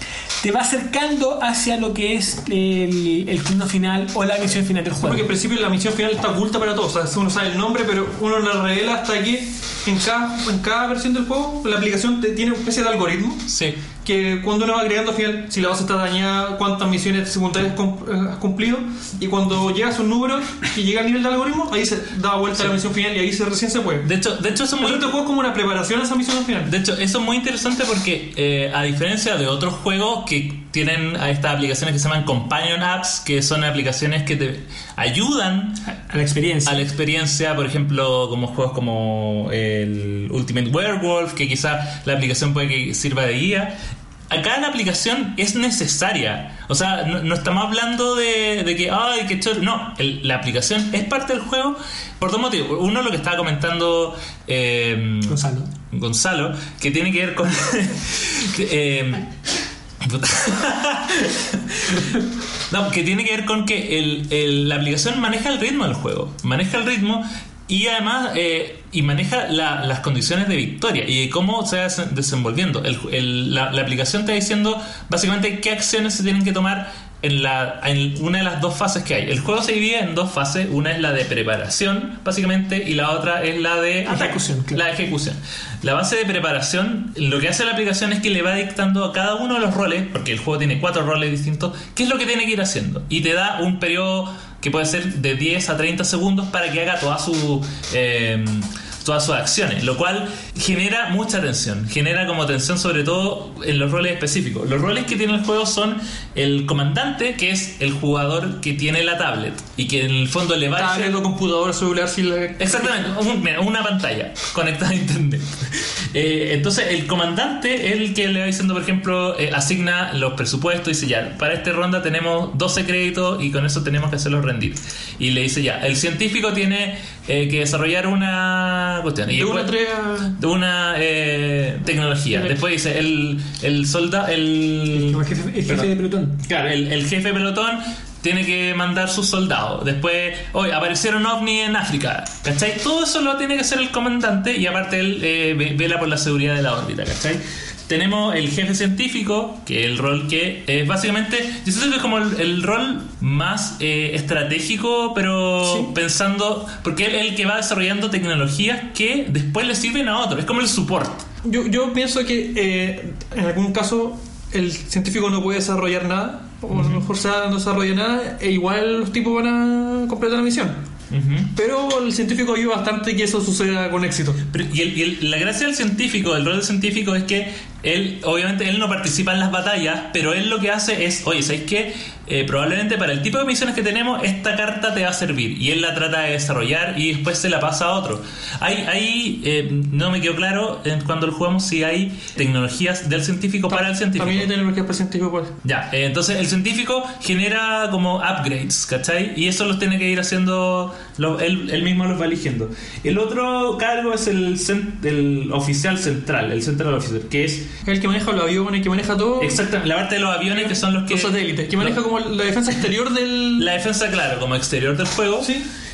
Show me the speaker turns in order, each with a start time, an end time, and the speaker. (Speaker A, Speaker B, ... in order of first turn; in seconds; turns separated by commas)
Speaker A: 0.4-5.3, Speaker B: 5.0-13.5, Speaker C: 13.5-13.8, Speaker B: 14.0-24.1, Speaker C: 24.0-25.1, Speaker B: 24.8-26.7, Speaker C: 26.6-35.9, Speaker A: 35.9-36.8, Speaker C: 36.6-43.8, Speaker C: 44.3-59.3, Speaker A: 55.2-55.7, Speaker C: 60.0-111.2, Speaker A: 84.0-84.8, Speaker B: 110.7-113.1, Speaker C: 112.6-129.7, Speaker B: 129.3-130.4, Speaker C: 130.3-161.2, Speaker A: 134.9-136.4, Speaker B: 161.4-170.8, Speaker C: 166.7-167.0, Speaker C: 171.1-171.5, Speaker B: 171.5-174.4, Speaker C: 174.5-194.5, Speaker B: 193.7-195.6, Speaker C: 195.6-207.7, Speaker B: 207.8-209.7, Speaker C: 209.4-212.0, Speaker B: 210.5-213.7, Speaker C: 213.6-215.5, Speaker B: 215.4-215.7